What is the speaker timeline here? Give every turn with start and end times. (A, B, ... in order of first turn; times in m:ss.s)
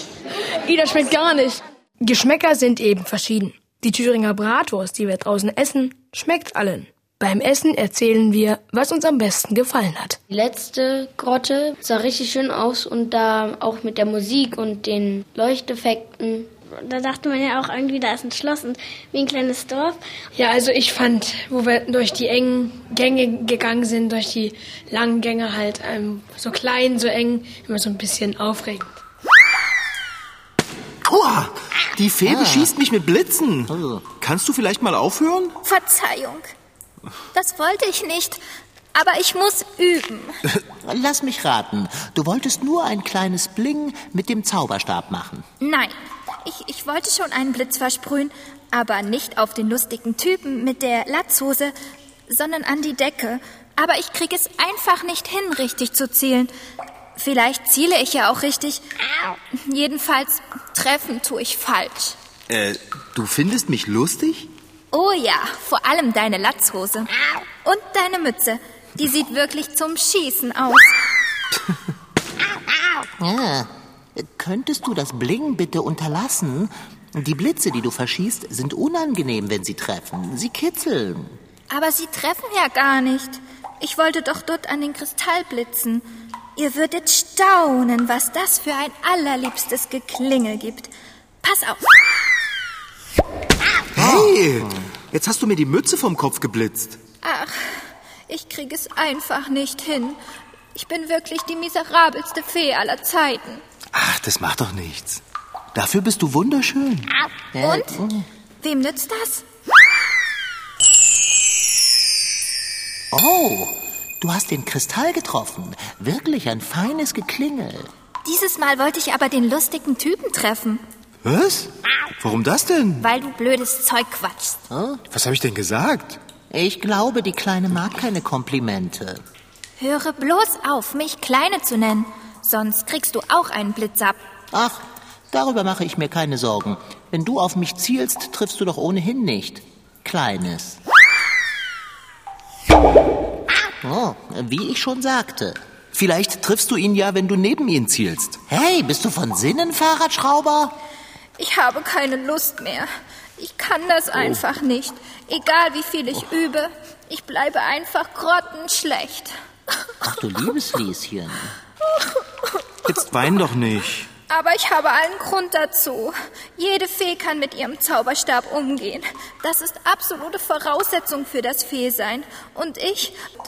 0:00.6-0:10.2 A
0:10.3-0:16.5 B
0:16.7-0:20.0 C
0:20.3-0:28.9 A
0:31.0-0:35.6 D
0:32.2-0:32.7 E
0:33.7-0:34.0 E
0:35.6-0:36.5 F
0:37.3-0:38.4 F
0:38.9-0:40.4 F
0:40.8-0:45.4 E
0:45.6-0:51.7 F
0:52.3-0:56.5 F
0:57.2-0:58.8 F
0:59.5-1:02.2 F
1:02.5-1:04.5 D
1:04.9-1:07.1 F
1:07.6-1:11.0 F
1:13.2-1:21.4 E
1:21.7-1:30.9 F
1:31.4-1:31.9 F
1:33.9-1:37.0 D
1:34.0-1:34.3 E
1:37.2-1:40.2 F
1:40.7-1:43.6 F
1:43.9-1:45.2 D
1:45.7-1:47.1 D
1:47.5-1:48.3 E
1:47.6-1:48.0 F
1:48.6-1:49.4 F
1:53.1-1:57.9 E
1:58.2-2:00.8 F
2:01.2-2:03.1 D
2:03.0-2:04.6 F
2:04.7-2:05.0 E
2:05.1-2:06.2 D
2:06.5-2:09.2 E
2:09.8-2:14.2 F
2:14.5-2:20.8 E
2:23.8-2:25.6 E
2:25.9-2:28.4 D
2:28.5-2:30.8 E
2:31.4-2:39.3 F
2:40.0-2:41.5 E
2:42.8-2:44.1 D
2:44.3-2:53.2 F